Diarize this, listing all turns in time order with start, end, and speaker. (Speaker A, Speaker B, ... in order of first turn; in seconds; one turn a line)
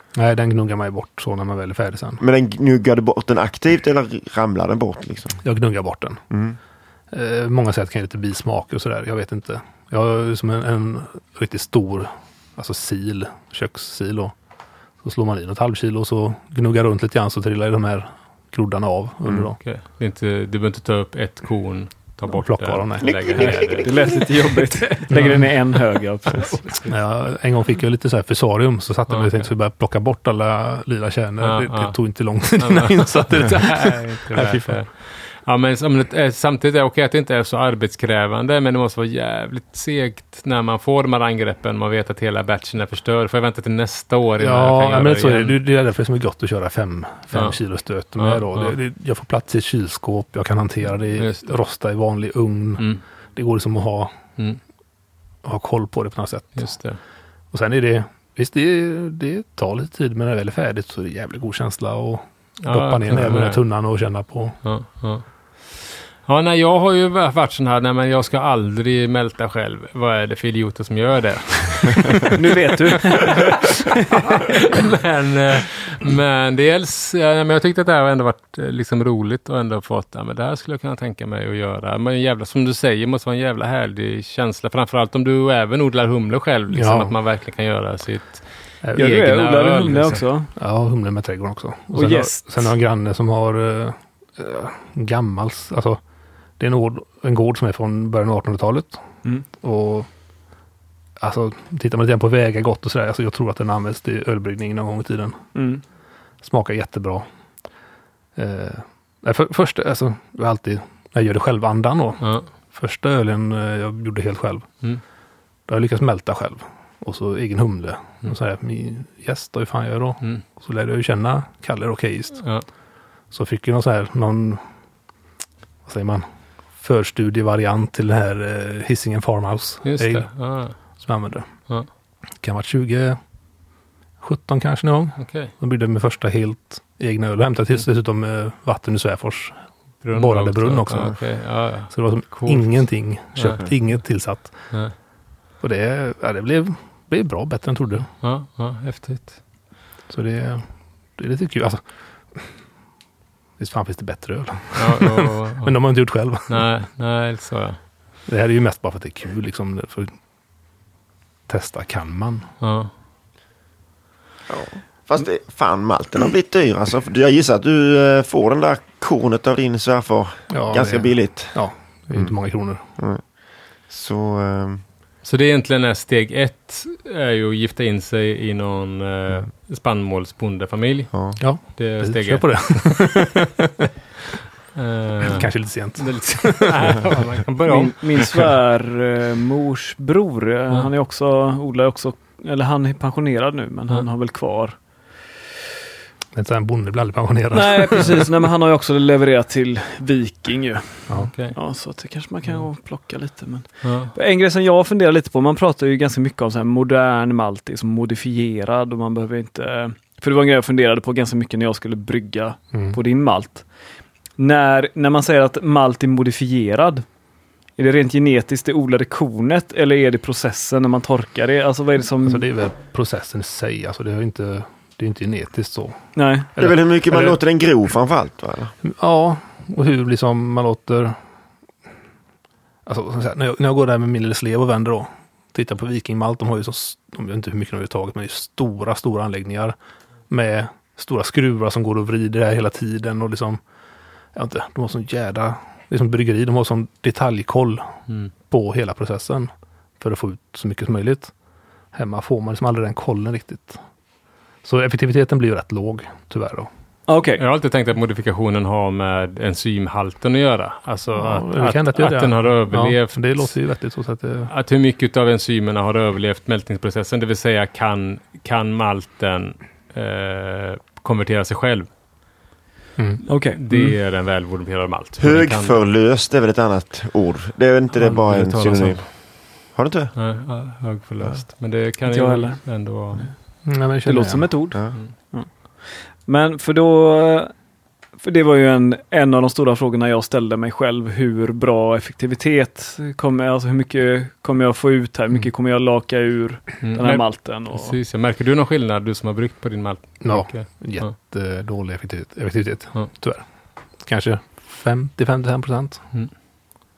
Speaker A: 0.1-2.2
Speaker B: 2.2-5.4
Speaker A: 5.4-6.2
Speaker B: 6.3-6.6
Speaker A: 7.1-14.3
Speaker A: 15.0-19.6
Speaker C: 19.6-23.9
Speaker A: 22.3-23.5
Speaker B: 23.0-23.9
Speaker D: 23.7-26.7
Speaker A: 25.1-25.5
Speaker C: 25.1-25.4
Speaker C: 26.4-26.9
Speaker A: 26.8-34.8
Speaker C: 29.1-29.4
Speaker C: 31.4-32.0
Speaker C: 32.6-45.6
Speaker A: 44.4-54.1
Speaker C: 48.2-48.8
Speaker C: 51.2-51.5
Speaker A: 55.4-56.8
Speaker C: 56.6-57.0
Speaker A: 57.5-64.6
Speaker C: 62.6-63.6
Speaker C: 64.6-72.3
Speaker D: 72.3-74.5
Speaker C: 73.3-90.2
Speaker A: 86.7-87.1
Speaker A: 88.8-89.1
Speaker D: 89.0-90.5
Speaker A: 90.5-96.0
Speaker D: 91.9-92.7
Speaker A: 96.6-99.0
Speaker A: 99.6-100.1
Speaker A: 101.2-105.5
Speaker D: 105.5-105.8
Speaker A: 106.4-107.3
Speaker A: 108.4-114.7
Speaker C: 112.2-112.5
Speaker A: 115.7-122.5
Speaker A: 123.3-124.6
Speaker A: 125.9-126.3
Speaker A: 126.8-130.3
Speaker C: 129.8-130.8
Speaker A: 131.0-131.5
Speaker A: 132.4-133.2
Speaker A: 134.2-139.6
Speaker C: 135.2-135.5
Speaker C: 140.0-142.8
Speaker A: 140.1-141.2
Speaker A: 141.9-144.7
Speaker C: 143.4-143.7
Speaker A: 145.6-148.1
Speaker C: 148.2-149.4
Speaker A: 150.1-151.8
Speaker A: 153.6-156.7
Speaker C: 154.7-155.8
Speaker C: 156.5-157.8
Speaker A: 158.3-160.1
Speaker A: 161.5-162.5
Speaker C: 162.6-162.9
Speaker B: 164.5-171.6
Speaker A: 170.5-172.8
Speaker B: 173.0-173.2
Speaker B: 173.9-174.8
Speaker C: 175.2-183.2
Speaker B: 181.1-181.4
Speaker A: 181.4-183.9
Speaker C: 184.7-188.5
Speaker A: 185.2-187.2
Speaker D: 187.7-194.8
Speaker A: 196.3-198.3
Speaker D: 197.5-213.7
Speaker C: 201.2-201.6
Speaker C: 203.8-204.1
Speaker A: 212.7-213.0
Speaker D: 214.4-217.1
Speaker D: 217.8-222.5
Speaker A: 222.2-227.4
Speaker D: 226.2-226.5
Speaker B: 226.6-228.7
Speaker A: 228.8-231.2
Speaker A: 232.9-239.8
Speaker A: 240.3-243.6
Speaker A: 244.3-248.0
Speaker A: 248.5-251.3
Speaker A: 251.9-253.8
Speaker A: 254.6-256.7
Speaker D: 257.1-257.4
Speaker C: 257.4-263.5
Speaker A: 261.1-264.5
Speaker C: 264.5-271.9
Speaker A: 273.0-273.2
Speaker D: 273.3-273.9
Speaker C: 273.5-275.8
Speaker B: 275.2-279.0
Speaker C: 278.0-279.0
Speaker B: 279.7-280.1
Speaker C: 280.2-283.3
Speaker D: 282.1-282.6
Speaker A: 283.6-284.5
Speaker D: 284.1-287.5
Speaker D: 288.2-297.9
Speaker C: 296.8-301.1
Speaker A: 300.2-303.4
Speaker A: 304.0-306.0